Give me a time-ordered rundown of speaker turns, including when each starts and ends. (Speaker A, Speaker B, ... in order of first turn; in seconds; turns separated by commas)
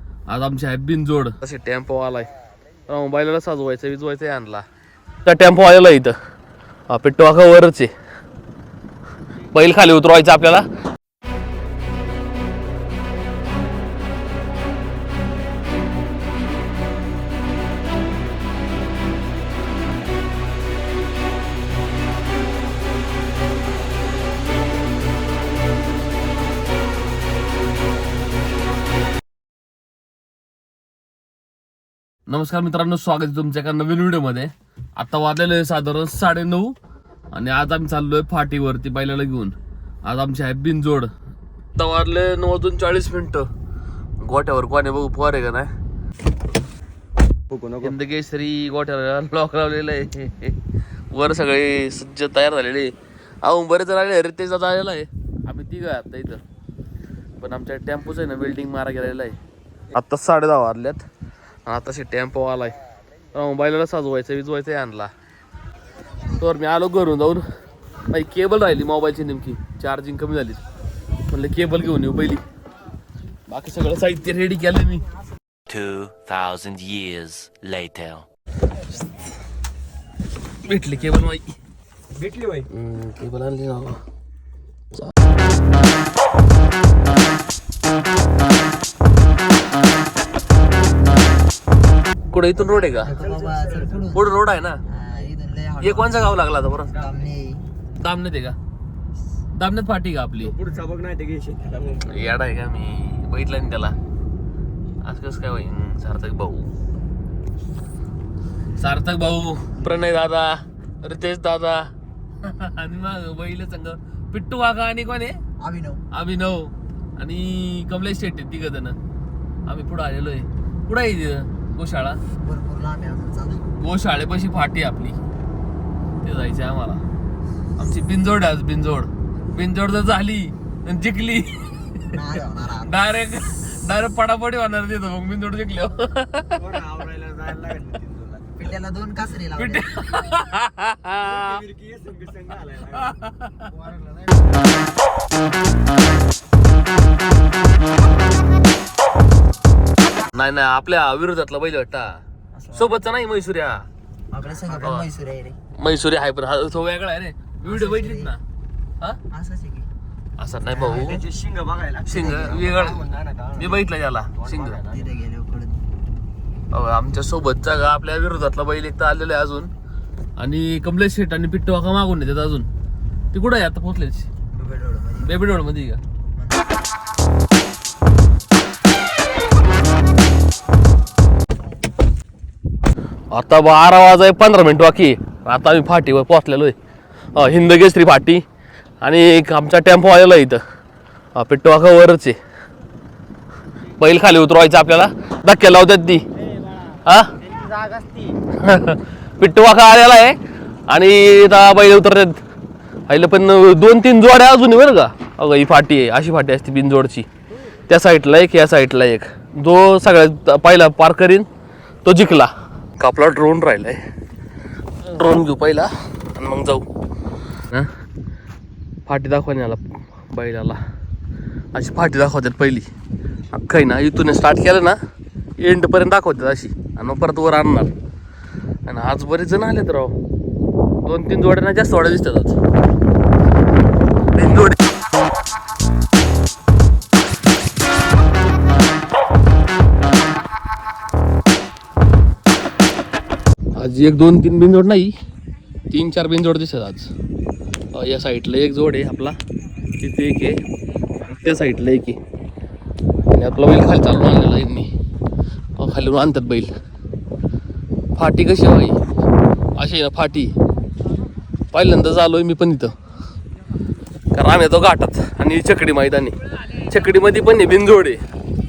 Speaker A: 0.3-2.3, Speaker A: 2.9-4.7, Speaker A: 5.2-6.2, Speaker A: 6.9-7.9, Speaker A: 9.5-10.7, Speaker A: 32.3-36.8, Speaker A: 37.3-41.1, Speaker A: 41.8-43.5, Speaker A: 44.2-45.7, Speaker B: 47.5-47.9, Speaker A: 47.8-50.6, Speaker A: 51.1-56.4, Speaker A: 57.4-59.4, Speaker A: 59.9-61.0, Speaker A: 61.7-62.8, Speaker A: 63.3-65.1, Speaker A: 66.3-67.5, Speaker A: 68.1-70.6, Speaker A: 71.3-72.4, Speaker A: 73.5-75.0, Speaker C: 75.7-78.3, Speaker A: 80.7-81.5, Speaker B: 82.1-82.7, Speaker A: 82.7-84.0, Speaker A: 92.3-93.1, Speaker D: 93.0-94.3, Speaker B: 93.1-94.0, Speaker A: 94.1-94.8, Speaker D: 94.9-96.2, Speaker A: 95.8-97.0, Speaker D: 96.9-97.7, Speaker A: 98.0-98.6, Speaker A: 99.5-100.5, Speaker B: 100.4-102.2, Speaker A: 102.0-104.0, Speaker A: 105.0-106.7, Speaker A: 108.8-111.9, Speaker A: 112.4-115.4, Speaker D: 115.6-116.0, Speaker A: 116.1-119.0, Speaker A: 119.7-122.2, Speaker D: 122.4-123.7, Speaker A: 123.8-125.2, Speaker A: 126.2-127.0, Speaker A: 127.8-132.2, Speaker D: 132.1-133.1, Speaker A: 132.8-136.6, Speaker B: 136.6-138.6, Speaker D: 138.6-139.9, Speaker A: 139.6-141.6, Speaker B: 141.2-143.2, Speaker A: 143.0-143.7, Speaker D: 143.7-144.4, Speaker A: 150.3-152.2, Speaker D: 152.5-153.0, Speaker A: 152.7-153.9, Speaker D: 154.3-155.6, Speaker A: 155.8-158.4, Speaker D: 157.6-158.3, Speaker D: 159.3-159.9, Speaker A: 160.4-161.2, Speaker D: 160.7-161.1, Speaker B: 160.8-165.1, Speaker A: 162.1-163.0, Speaker D: 162.1-162.8, Speaker A: 163.6-164.8, Speaker D: 164.8-165.8, Speaker A: 166.7-169.7, Speaker A: 170.4-172.7, Speaker A: 173.3-174.3, Speaker D: 174.5-175.4, Speaker A: 175.2-176.0, Speaker D: 176.3-176.7, Speaker A: 183.3-186.8, Speaker A: 187.3-188.4, Speaker A: 189.0-190.6, Speaker A: 191.3-192.4, Speaker A: 194.0-196.2, Speaker A: 197.0-197.3, Speaker B: 197.4-198.3, Speaker A: 198.5-202.4, Speaker A: 203.1-207.3, Speaker A: 207.9-211.5, Speaker A: 212.1-214.0, Speaker A: 215.0-216.9, Speaker A: 219.1-220.8, Speaker A: 221.7-222.9, Speaker A: 223.5-225.0, Speaker A: 225.6-228.0, Speaker A: 228.9-230.2, Speaker A: 231.1-232.6, Speaker A: 234.3-234.8, Speaker A: 243.8-245.1, Speaker A: 245.9-247.1, Speaker A: 247.9-249.4, Speaker A: 250.0-250.6, Speaker A: 251.3-252.2, Speaker A: 253.3-254.9, Speaker A: 255.8-256.7, Speaker A: 258.2-259.0, Speaker A: 259.8-260.5, Speaker A: 261.7-262.9, Speaker A: 264.3-268.2